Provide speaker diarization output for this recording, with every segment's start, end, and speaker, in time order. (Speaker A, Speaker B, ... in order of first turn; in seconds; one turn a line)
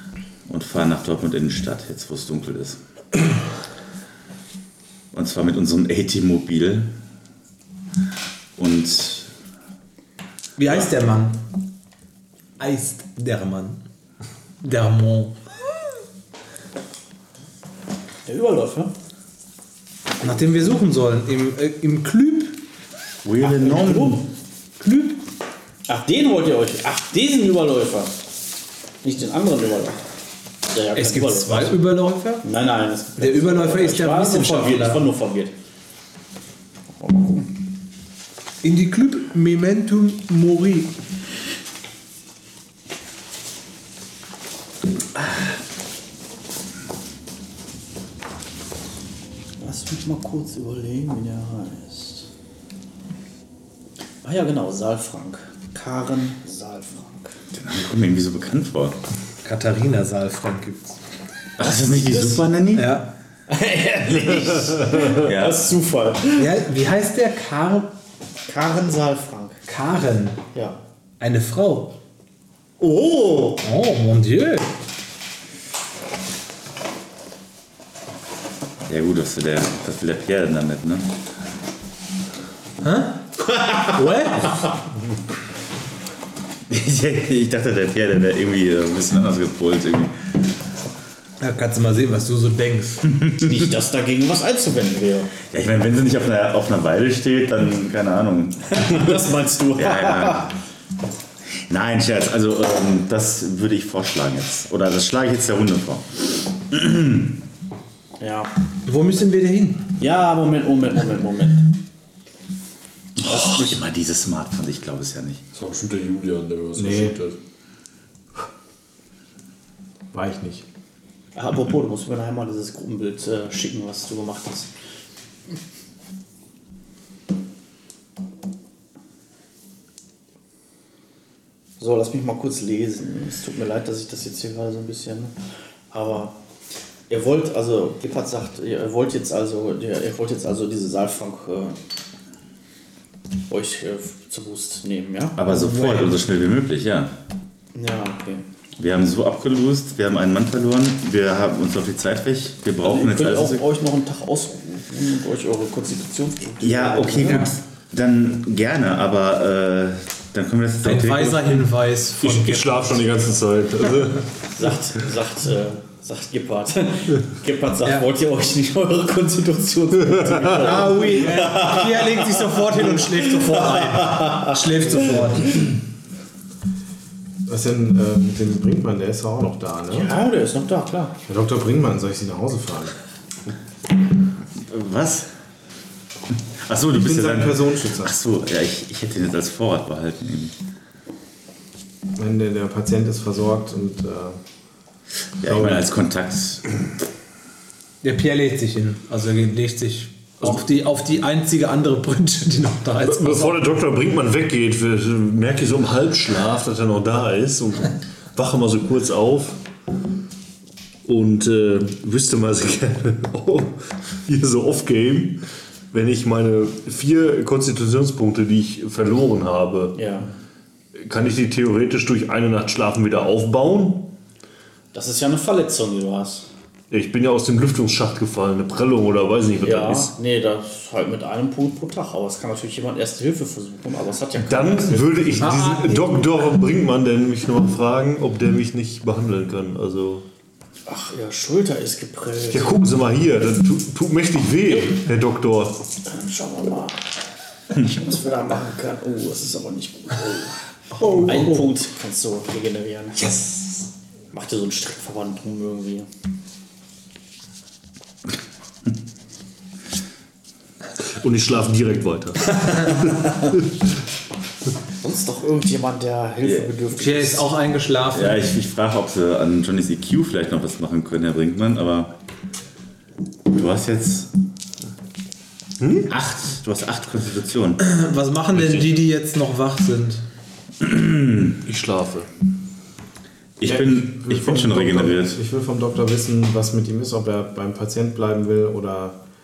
Speaker A: 0.5-2.8
Speaker A: 5.1-6.9
Speaker A: 8.6-9.3
Speaker B: 10.6-11.4
Speaker B: 12.6-13.8
Speaker B: 14.6-15.4
Speaker C: 18.2-18.9
Speaker B: 20.2-22.6
Speaker A: 23.2-24.2
Speaker C: 23.4-24.2
Speaker B: 24.8-25.2
Speaker C: 25.9-28.1
Speaker C: 29.0-30.0
Speaker C: 30.7-31.8
Speaker B: 30.9-32.4
Speaker C: 32.4-35.5
Speaker B: 33.2-35.0
Speaker C: 37.0-37.5
Speaker B: 38.6-40.9
Speaker C: 49.6-52.3
Speaker C: 54.2-57.3
Speaker A: 57.5-59.0
Speaker B: 59.4-61.0
Speaker A: 61.6-63.0
Speaker C: 62.0-62.4
Speaker B: 62.7-63.1
Speaker C: 63.5-66.5
Speaker A: 65.0-65.7
Speaker B: 66.4-67.9
Speaker C: 68.5-69.7
Speaker B: 69.7-70.4
Speaker C: 70.5-70.8
Speaker B: 71.2-72.0
Speaker C: 72.8-73.6
Speaker B: 73.6-74.7
Speaker A: 78.9-81.1
Speaker B: 82.8-84.7
Speaker A: 86.7-90.2
Speaker B: 91.4-93.0
Speaker A: 93.1-93.5
Speaker C: 93.4-95.3
Speaker A: 95.5-100.5
Speaker C: 98.7-100.5
Speaker A: 101.7-107.4
Speaker C: 108.2-108.5
Speaker B: 108.8-109.9
Speaker C: 110.0-111.7
Speaker C: 113.2-113.8
Speaker A: 113.2-115.4
Speaker D: 115.5-117.3
Speaker E: 116.8-117.2
Speaker E: 120.1-120.6
Speaker C: 121.3-124.7
Speaker C: 131.8-135.3
Speaker C: 135.9-136.3
Speaker C: 137.1-141.8
Speaker C: 143.5-145.5
Speaker A: 145.4-147.1
Speaker B: 145.5-146.0
Speaker C: 147.7-148.4
Speaker A: 148.8-153.6
Speaker C: 152.8-157.5
Speaker A: 156.6-161.7
Speaker B: 160.8-163.0
Speaker D: 162.2-164.3
Speaker C: 164.5-174.5
Speaker B: 170.5-175.7
Speaker E: 177.4-180.2
Speaker C: 179.9-181.2
Speaker E: 181.3-182.9
Speaker A: 184.6-185.3
Speaker A: 186.6-190.5
Speaker E: 186.9-188.1
Speaker E: 192.2-194.4
Speaker A: 195.4-196.7
Speaker E: 195.4-195.9
Speaker B: 198.0-203.6
Speaker D: 203.0-209.6
Speaker D: 211.0-219.9
Speaker C: 219.9-220.3
Speaker D: 220.9-224.1
Speaker C: 224.9-226.5
Speaker D: 226.9-230.1
Speaker C: 229.6-235.2
Speaker D: 234.4-240.2
Speaker B: 235.4-236.2
Speaker C: 240.9-242.8
Speaker D: 242.5-245.8
Speaker C: 246.0-247.0
Speaker C: 247.7-253.7
Speaker B: 250.9-251.7
Speaker C: 254.3-256.1
Speaker D: 261.0-263.6
Speaker C: 265.0-267.5
Speaker B: 266.9-268.4
Speaker A: 268.1-272.1
Speaker A: 273.5-274.3
Speaker D: 275.8-276.1
Speaker A: 276.1-277.8
Speaker B: 277.8-280.2
Speaker D: 278.5-278.9
Speaker A: 280.8-281.6
Speaker D: 281.6-282.3
Speaker A: 283.6-285.4
Speaker E: 283.6-289.2